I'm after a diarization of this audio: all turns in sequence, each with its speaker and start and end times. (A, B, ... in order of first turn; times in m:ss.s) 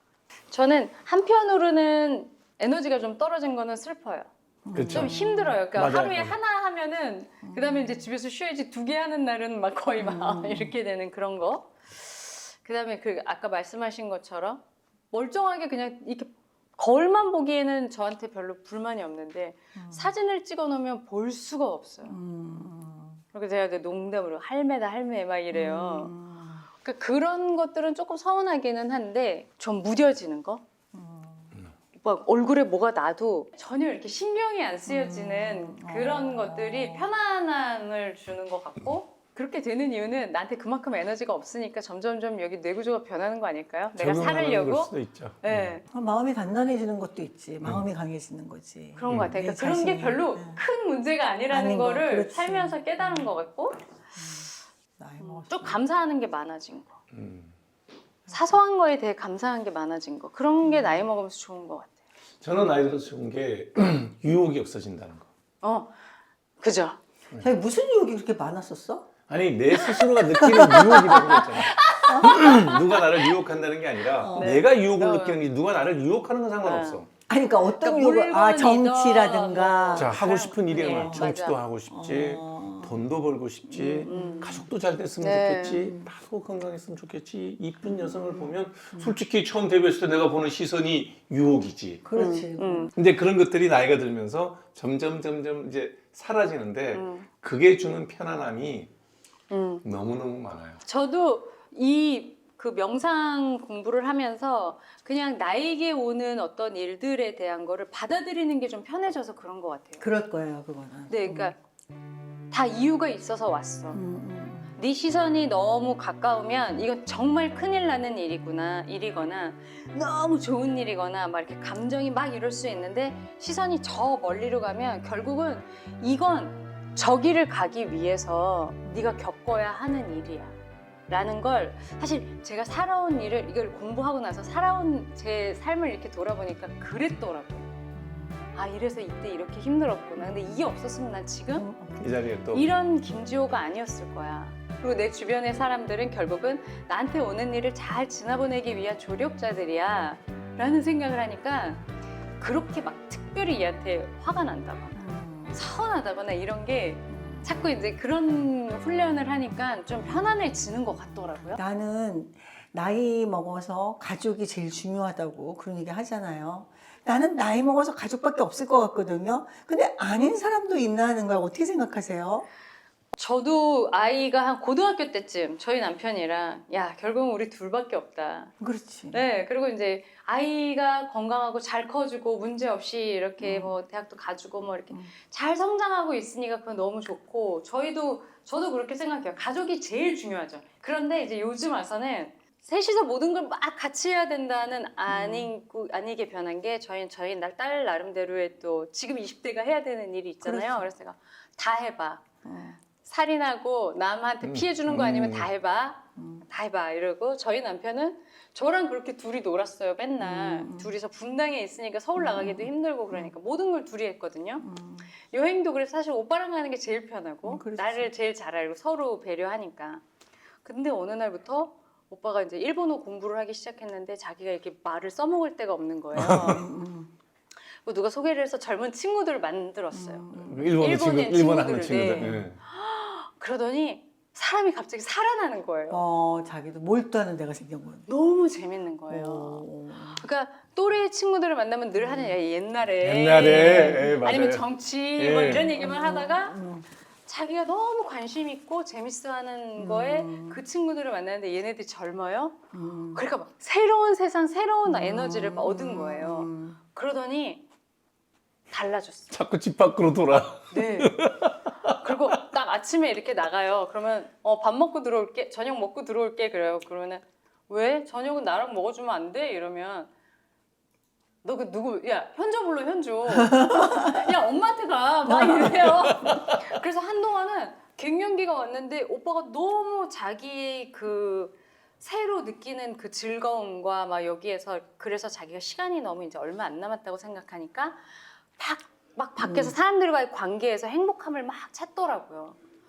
0:00.5-0:04.3 A
0:04.7-0:05.6 B
0:04.7-0:05.1 C
0:04.9-0:22.2 A
0:05.7-0:06.4 C
0:07.4-0:08.1 B
0:10.0-0:10.8 B
0:19.8-0:20.2 B
0:22.0-0:23.2 B
0:23.3-0:26.1 A
0:25.5-0:26.7 B
0:26.8-0:30.6 A
0:30.9-0:31.5 B
0:32.0-0:45.8 A
0:34.9-0:37.1 B
0:44.0-0:45.8 C
0:45.9-0:50.6 B
0:49.0-0:53.8 A
0:49.1-0:49.4 C
0:51.5-0:53.3 B
0:54.2-0:55.8 B
0:55.2-0:57.0 A
0:57.1-0:57.5 C
0:58.3-0:58.6 B
0:58.3-1:02.0 A
1:00.6-1:01.1 B
1:02.4-1:05.3 C
1:05.6-1:06.0 A
1:06.6-1:07.0 A
1:07.4-1:09.1 B
1:09.3-1:17.1 C
1:09.8-1:13.4 A
1:10.4-1:11.4 B
1:12.0-1:12.4 B
1:14.2-1:14.6 B
1:14.4-1:15.4 A
1:16.6-1:17.0 A
1:17.3-1:20.2 B
1:17.8-1:21.6 A
1:20.0-1:32.0 C
1:20.8-1:23.0 B
1:23.7-1:24.7 B
1:24.0-1:24.6 A
1:25.2-1:25.9 A
1:25.8-1:26.1 B
1:27.9-1:29.2 B
1:32.0-1:32.9 B
1:32.2-1:32.9 A
1:33.0-1:38.9 C
1:36.9-1:37.3 A
1:39.5-1:39.8 A
1:39.8-1:40.8 C
1:40.8-1:50.0 A
1:50.0-1:51.5 B
1:51.1-1:51.6 A
1:52.5-1:54.0 A
1:53.9-1:54.8 B
1:54.8-2:10.6 A
2:11.1-2:17.7 A
2:18.0-2:18.5 B
2:18.6-2:21.7 A
2:20.2-2:20.5 B
2:21.5-2:22.2 B
2:22.0-2:22.7 C
2:22.5-2:31.8 A
2:32.4-2:35.0 A
2:34.9-2:35.8 B
2:35.5-2:41.6 A
2:37.1-2:37.7 B
2:40.0-2:52.5 B
2:53.2-2:58.5 A
2:58.6-2:59.2 B
2:59.1-3:22.2 A
3:03.4-3:03.8 B
3:15.1-3:15.5 B
3:20.4-3:20.9 B
3:22.4-3:22.8 B
3:23.0-3:34.6 A
3:24.4-3:25.5 C
3:26.2-3:26.5 B
3:30.2-3:30.9 B
3:32.2-3:33.3 B
3:34.6-3:35.1 B
3:35.3-3:40.0 A
3:37.4-3:38.1 B
3:40.6-3:46.7 A
3:46.1-3:46.6 C
3:46.2-3:47.1 B
3:47.8-3:56.0 A
3:49.9-3:50.8 B
3:50.4-3:52.6 C
3:55.9-3:58.1 B
3:58.1-4:06.6 A
3:59.1-4:00.3 B
4:01.9-4:02.4 B
4:03.0-4:05.8 C
4:03.5-4:04.2 B
4:05.5-4:06.9 B
4:07.3-4:12.6 A
4:09.8-4:10.6 B
4:12.7-4:13.2 B
4:13.1-4:17.6 A
4:14.8-4:16.8 B
4:18.7-4:19.3 A
4:19.3-4:22.3 C
4:20.7-4:21.2 A
4:22.0-4:30.1 A
4:31.4-4:52.6 A
4:33.4-4:34.2 B
4:35.3-4:36.5 B
4:49.4-4:49.8 B